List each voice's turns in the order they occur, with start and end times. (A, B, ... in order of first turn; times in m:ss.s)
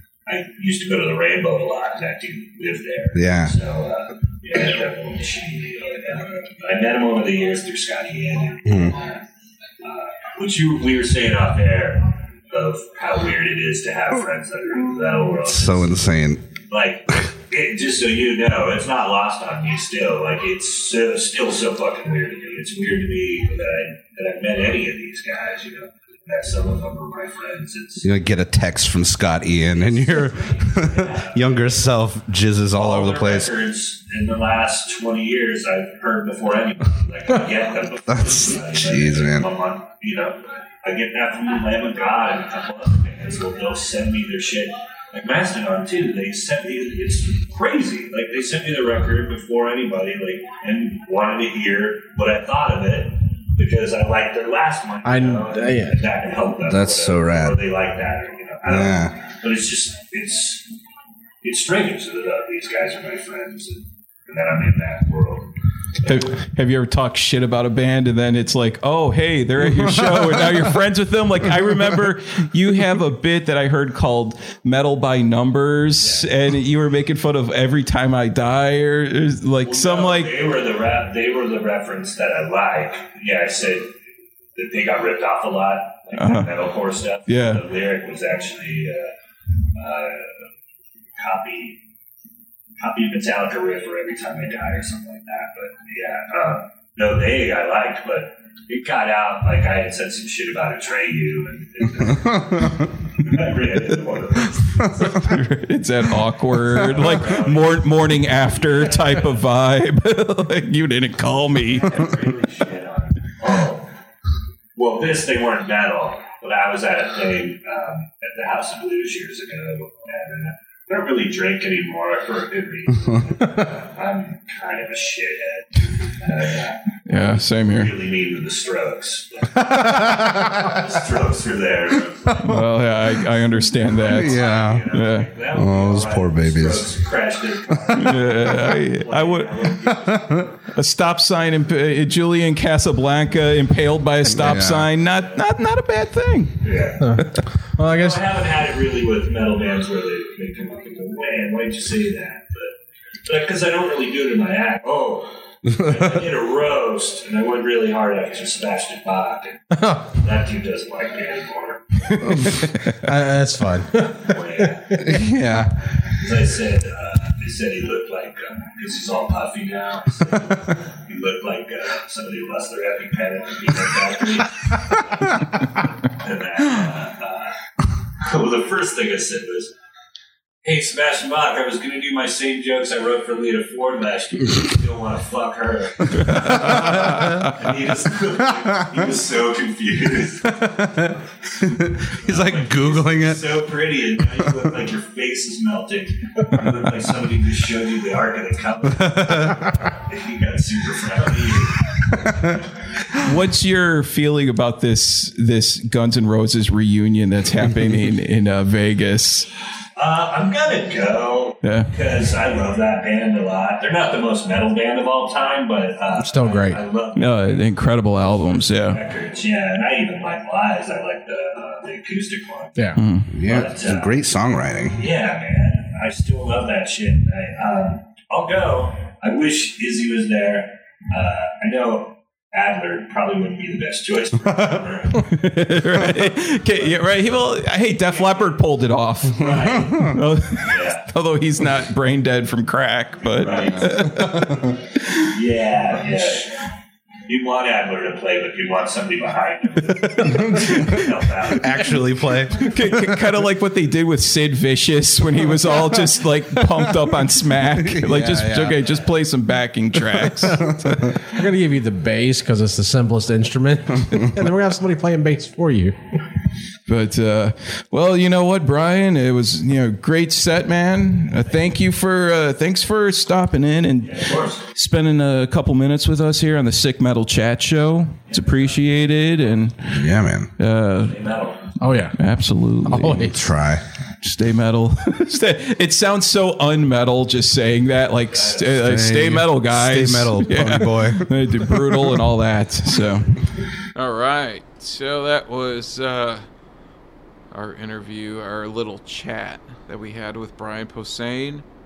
0:00.3-0:09.2 A
0:03.1-0:03.5 B
0:08.6-0:09.0 B
0:09.8-0:16.0 A
0:15.3-0:16.4 B
0:16.7-0:28.1 A
0:28.0-0:33.5 B
0:29.7-0:31.9 A
0:32.8-1:00.6 A
0:38.1-0:39.5 B
0:55.0-0:56.0 C
0:56.6-0:57.6 B
0:58.7-0:59.1 B
1:01.4-1:05.5 A
1:06.0-1:20.3 D
1:16.0-1:16.3 A
1:19.6-1:24.0 A
1:24.6-1:29.1 A
1:26.2-1:26.5 D
1:27.3-1:27.6 D
1:29.8-1:30.4 A
1:31.2-1:31.8 A
1:32.8-1:45.3 A
1:44.8-1:52.1 D
1:46.7-1:49.4 A
1:51.6-1:53.9 A
1:54.8-2:12.7 A
2:07.1-2:08.0 D
2:12.4-2:15.3 D
2:13.8-2:20.6 A
2:14.0-2:14.9 B
2:15.5-2:17.0 B
2:17.9-2:19.6 D
2:19.9-2:20.4 B
2:20.7-2:26.6 D
2:24.3-2:24.9 B
2:26.6-2:27.2 A
2:27.0-2:28.2 C
2:27.8-2:32.7 A
2:33.3-2:42.5 A
2:35.7-2:36.0 B
2:42.1-2:43.0 D
2:42.9-2:44.3 C
2:44.0-2:45.4 A
2:45.0-2:45.8 B
2:46.1-2:57.6 A
2:58.2-2:59.7 A
3:00.6-3:11.0 A
3:06.4-3:07.5 D
3:10.6-3:13.7 B
3:12.0-3:22.6 A
3:18.9-3:19.6 B
3:23.1-3:29.5 D
3:30.0-3:42.9 A
3:31.6-3:31.9 D
3:36.2-3:36.8 C
3:37.2-3:39.0 D
3:43.0-3:43.4 D
3:43.3-3:45.0 B
3:43.4-3:44.1 A
3:45.0-3:55.4 A
3:55.2-4:05.3 D
3:56.4-3:57.4 A
3:58.1-3:58.6 A
3:59.4-4:01.1 A
3:59.5-4:00.2 B
4:03.4-4:04.0 A
4:03.4-4:04.8 B
4:05.3-4:06.6 A
4:07.3-4:12.3 A
4:10.2-4:13.0 B
4:10.4-4:11.1 D
4:12.5-4:20.8 D
4:17.8-4:18.8 B
4:20.5-4:21.2 B
4:21.2-4:26.0 C
4:26.9-4:40.0 D
4:34.0-4:34.7 A
4:38.3-4:39.6 A
4:39.9-4:40.5 B
4:40.6-4:41.2 D
4:41.0-4:41.8 A
4:41.8-4:42.2 C
4:42.2-4:43.3 D
4:42.8-4:43.4 C
4:43.1-4:43.8 B
4:44.2-4:53.3 D
4:48.3-4:48.8 A
4:48.8-4:52.0 B
4:53.9-4:56.5 E
4:57.5-5:01.6 E